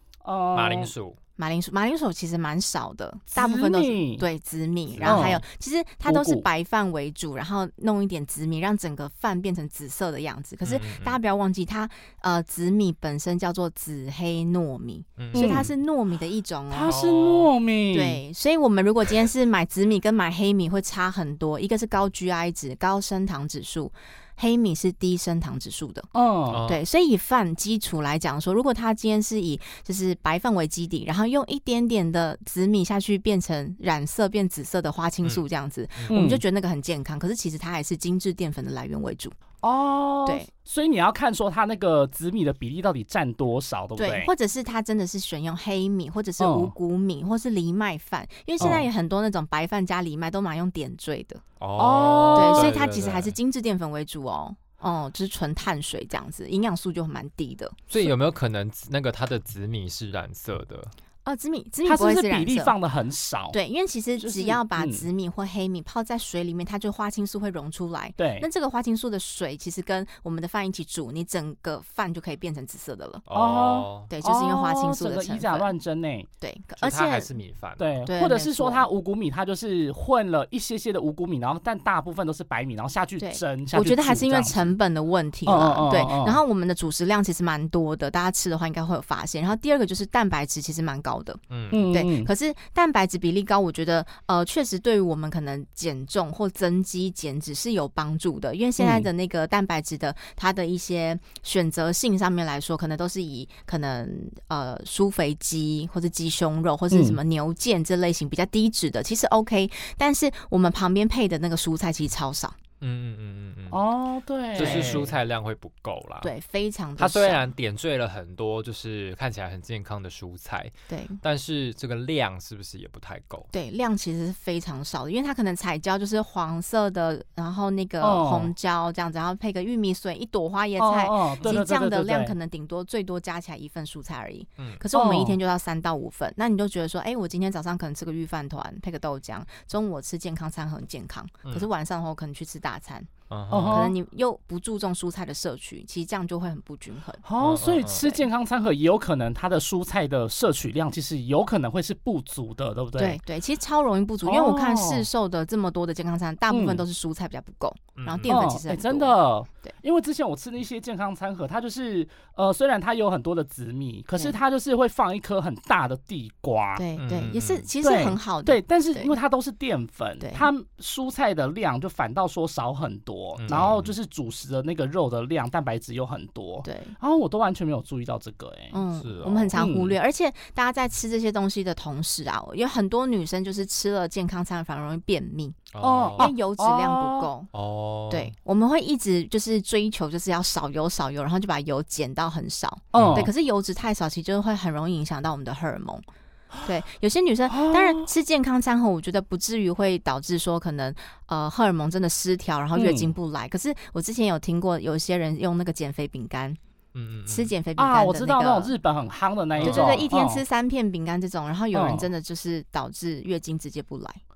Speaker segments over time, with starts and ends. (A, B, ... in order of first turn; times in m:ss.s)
0:00.2-0:00.9 A
0:00.5-0:01.2 B
0:01.4-0:17.0 C
0:03.3-0:04.2 A
0:05.0-0:05.4 B
0:05.0-0:05.4 A
0:06.1-0:06.4 A
0:10.6-0:11.2 B
0:15.2-0:15.7 B
0:15.3-0:15.7 A
0:16.7-0:18.2 A
0:16.9-0:17.5 B
0:17.9-0:26.1 C
0:26.1-0:26.6 A
0:26.5-0:26.8 B
0:26.6-0:39.4 C
0:36.1-0:36.4 A
0:39.6-0:44.3 A
0:44.0-0:51.4 C
0:46.4-0:46.7 A
0:48.6-0:48.9 A
0:51.6-0:53.4 B
0:51.8-0:52.8 A
0:52.3-0:57.8 C
0:57.9-1:00.9 B
1:01.2-1:02.8 C
1:01.8-1:03.6 A
1:03.5-1:13.2 C
1:04.2-1:05.1 A
1:08.2-1:08.5 A
1:13.3-1:14.1 B
1:13.3-1:16.3 A
1:14.1-1:15.7 C
1:16.4-1:17.4 C
1:16.8-1:18.1 B
1:17.8-1:24.8 A
1:18.1-1:18.9 C
1:23.2-1:52.6 C
1:25.5-1:26.4 A
1:31.5-1:31.9 B
1:31.7-1:32.3 A
1:38.8-1:39.1 A
1:46.9-1:47.2 A
1:52.8-1:53.8 B
1:53.7-1:55.1 A
1:54.5-1:56.3 B
1:54.6-1:55.1 C
1:56.2-1:57.5 C
1:57.0-2:03.5 B
2:00.9-2:01.2 C
2:03.5-2:23.1 C
2:08.0-2:08.5 A
2:10.8-2:12.4 A
2:14.9-2:15.4 A
2:23.3-2:23.9 B
2:23.5-2:23.9 A
2:23.6-2:27.2 C
2:27.2-2:33.2 A
2:27.4-2:28.1 B
2:28.0-2:28.2 C
2:33.0-2:39.8 C
2:34.2-2:35.1 A
2:36.5-2:36.8 A
2:38.0-2:38.3 B
2:38.3-2:46.8 A
2:46.8-2:49.2 C
2:47.0-2:47.7 B
2:47.8-2:58.8 A
2:50.2-2:50.5 C
2:53.4-2:54.0 B
2:56.6-2:57.0 C
2:58.7-3:05.7 C
2:59.0-2:59.6 B
2:59.6-3:00.0 A
3:05.7-3:06.3 B
3:05.8-3:07.3 A
3:06.2-3:07.5 C
3:07.5-3:08.3 B
3:08.1-3:16.0 C
3:12.9-3:13.3 A
3:12.9-3:13.3 B
3:16.6-3:26.6 C
3:17.5-3:18.1 A
3:22.8-3:23.1 A
3:26.9-3:27.5 B
3:27.3-3:28.7 C
3:27.8-3:30.4 A
3:29.6-3:30.1 B
3:29.6-3:34.2 C
3:31.7-3:32.1 A